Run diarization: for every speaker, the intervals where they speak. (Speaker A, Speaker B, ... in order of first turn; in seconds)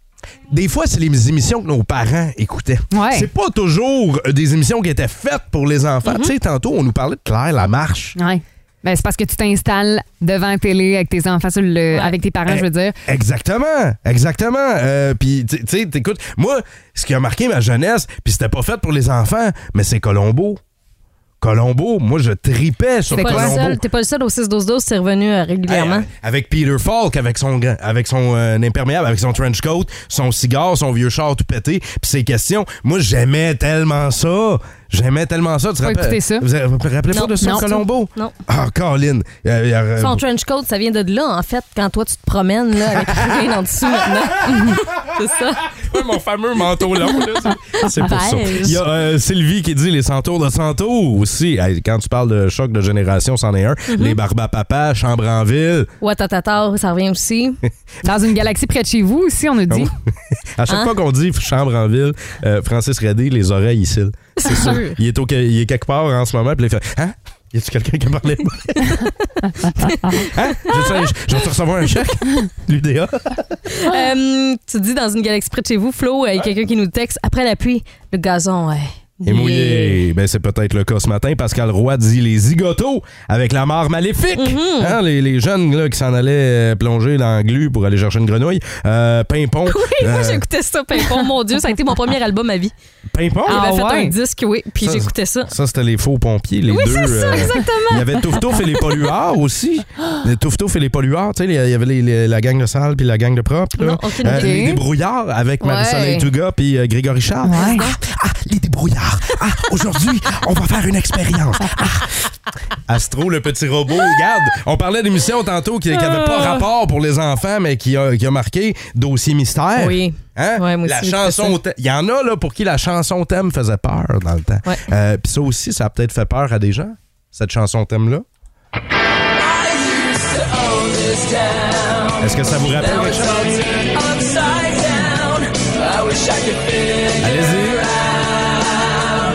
Speaker A: 0.5-8.1, 12.5-20.6, 21.4-23.8, 25.7-40.2, 45.7-55.9, 60.6-69.0, 70.1-73.6, 79.2-90.4, 93.1-93.6, 94.8-112.2, 112.9-128.2, 132.2-133.8, 137.2-138.0
Speaker B: 2.9-3.3, 8.2-13.0, 23.1-23.6, 35.8-36.5, 37.1-37.8, 58.0-59.9, 93.5-94.1, 97.3-97.6, 104.3-104.8, 107.4-107.9
Speaker C: 6.0-6.3, 23.1-26.1, 40.0-45.6, 46.8-48.8, 53.9-54.2, 56.0-57.6, 60.7-60.9, 64.4-65.0, 69.8-71.1, 73.7-80.0, 84.3-85.0, 89.7-92.7, 93.5-95.5, 96.7-99.0, 103.8-104.7, 105.6-106.3, 107.5-108.0, 115.9-116.7, 119.8-121.6